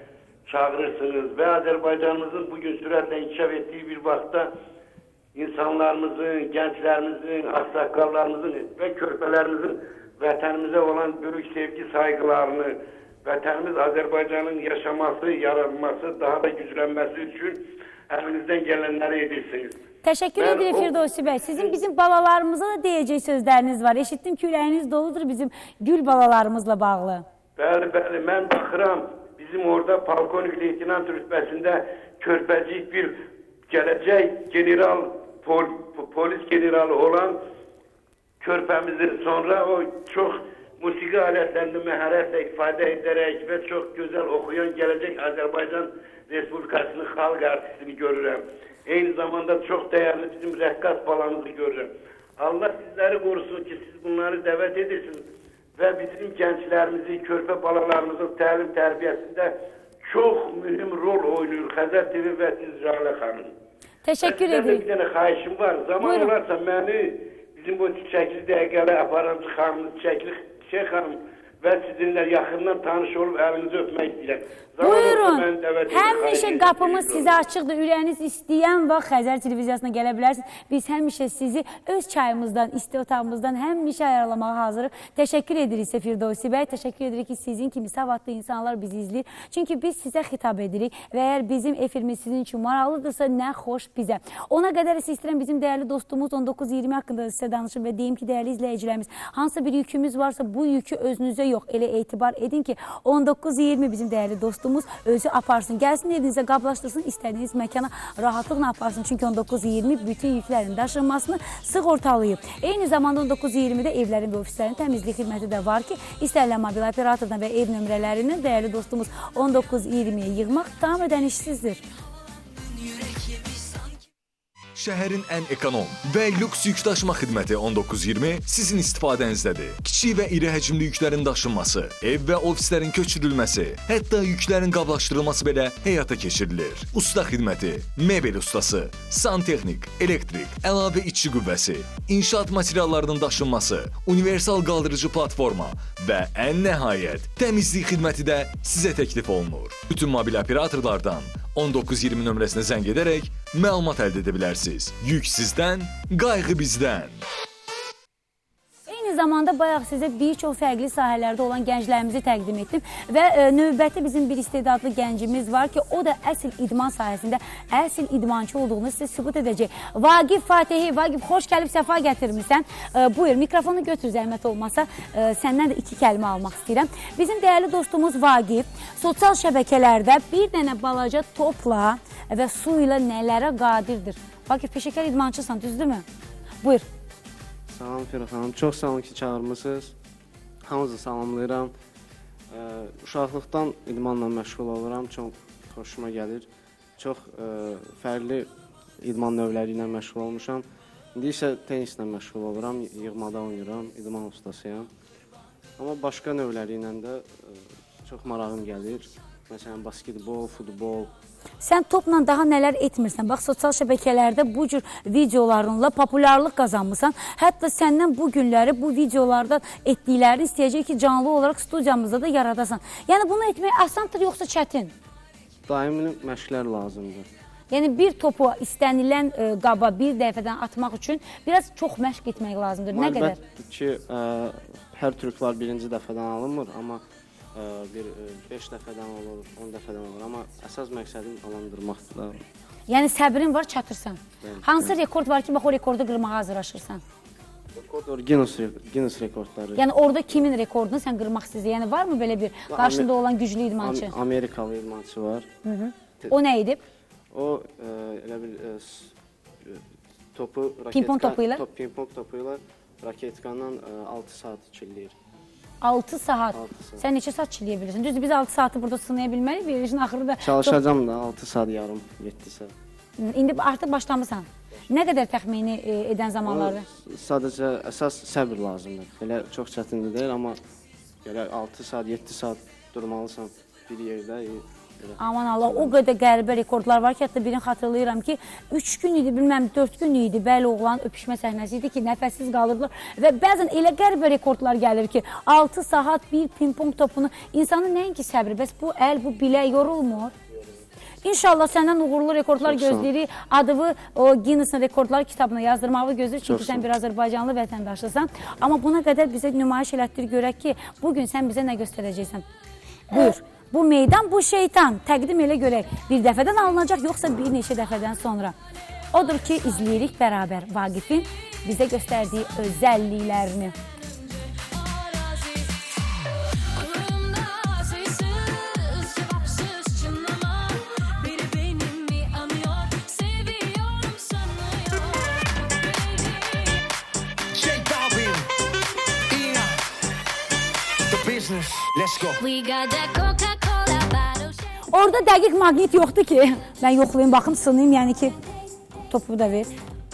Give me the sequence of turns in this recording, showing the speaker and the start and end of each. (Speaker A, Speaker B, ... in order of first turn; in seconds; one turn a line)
Speaker A: 0.5-4.5
Speaker A: 5.3-17.6
Speaker A: 18.1-19.8
Speaker B: 20.0-27.2
Speaker A: 20.4-20.9
Speaker A: 27.6-33.1
Speaker A: 33.7-37.4
Speaker A: 38.4-55.2
Speaker A: 55.8-59.5
Speaker A: 60.1-63.5
Speaker B: 64.0-64.8
Speaker A: 64.2-77.4
Speaker B: 66.0-66.3
Speaker B: 74.8-121.8
Speaker C: 123.2-123.5
Speaker D: 124.8-157.2
Speaker B: 158.9-186.0
Speaker E: 187.7-189.9
Speaker E: 190.6-191.7
Speaker E: 192.5-198.5
Speaker E: 199.0-204.9
Speaker E: 205.8-211.1
Speaker B: 211.6-224.9
Speaker E: 225.7-227.2
Speaker B: 227.7-233.4
Speaker E: 232.9-237.0
Speaker E: 237.5-242.4
Speaker B: 242.9-247.0
Speaker E: 244.4-245.0
Speaker E: 247.7-249.8
Speaker B: 249.8-254.1
Speaker E: 252.7-253.1
Speaker E: 253.8-255.5
Speaker B: 255.6-256.8
Speaker E: 257.3-259.1
Speaker E: 259.6-265.1
Speaker B: 260.9-261.6
Speaker B: 265.8-270.8
Speaker E: 266.5-267.0
Speaker E: 270.4-272.7
Speaker B: 273.2-276.9
Speaker E: 276.4-280.6
Speaker E: 281.2-285.9
Speaker B: 285.2-300.3
Speaker B: 301.2-312.4
Speaker E: 302.6-303.1
Speaker E: 306.4-306.9
Speaker B: 313.1-318.5
Speaker B: 319.1-323.7
Speaker C: 324.8-325.6
Speaker C: 326.8-330.7
Speaker C: 331.2-335.1
Speaker F: 337.5-338.5
Speaker F: 339.3-339.8
Speaker F: 341.1-342.4
Speaker C: 342.4-344.7
Speaker B: 344.9-348.3
Speaker B: 349.1-349.7